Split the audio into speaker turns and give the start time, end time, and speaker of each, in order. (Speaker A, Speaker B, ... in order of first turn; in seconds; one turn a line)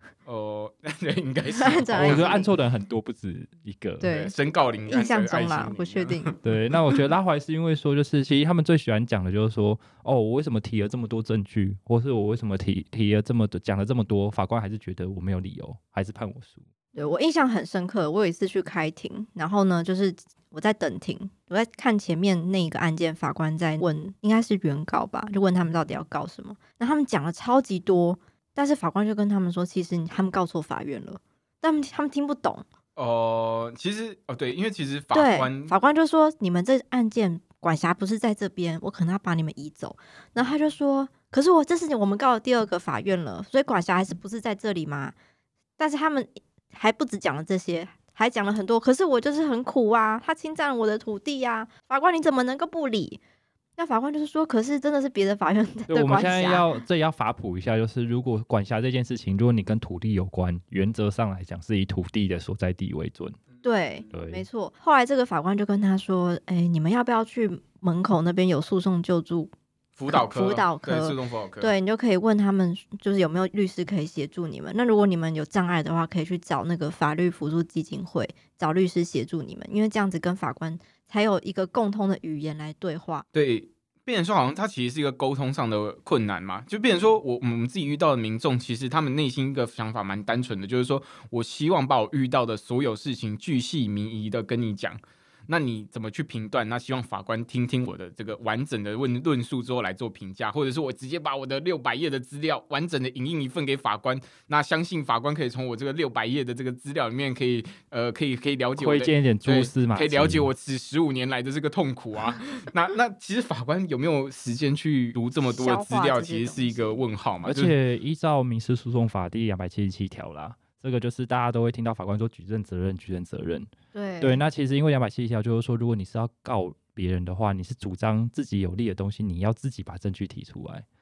Speaker A: 0.3-2.5
Speaker B: 1.6-2.5
Speaker C: 2.0-4.1
Speaker B: 4.0-4.3
Speaker A: 4.0-7.0
Speaker B: 4.9-6.4
Speaker C: 6.4-16.6
Speaker B: 16.9-32.6
Speaker A: 33.0-35.7
Speaker B: 35.1-45.1
Speaker B: 45.8-53.2
Speaker B: 53.8-56.7
Speaker C: 55.9-63.4
Speaker B: 63.6-69.5
Speaker C: 64.1-64.5
Speaker A: 70.0-71.7
Speaker B: 70.1-83.2
Speaker A: 83.3-117.8
Speaker C: 108.8-110.5
Speaker B: 115.4-117.0
Speaker C: 117.5-123.7
Speaker B: 123.9-124.4
Speaker C: 124.2-130.8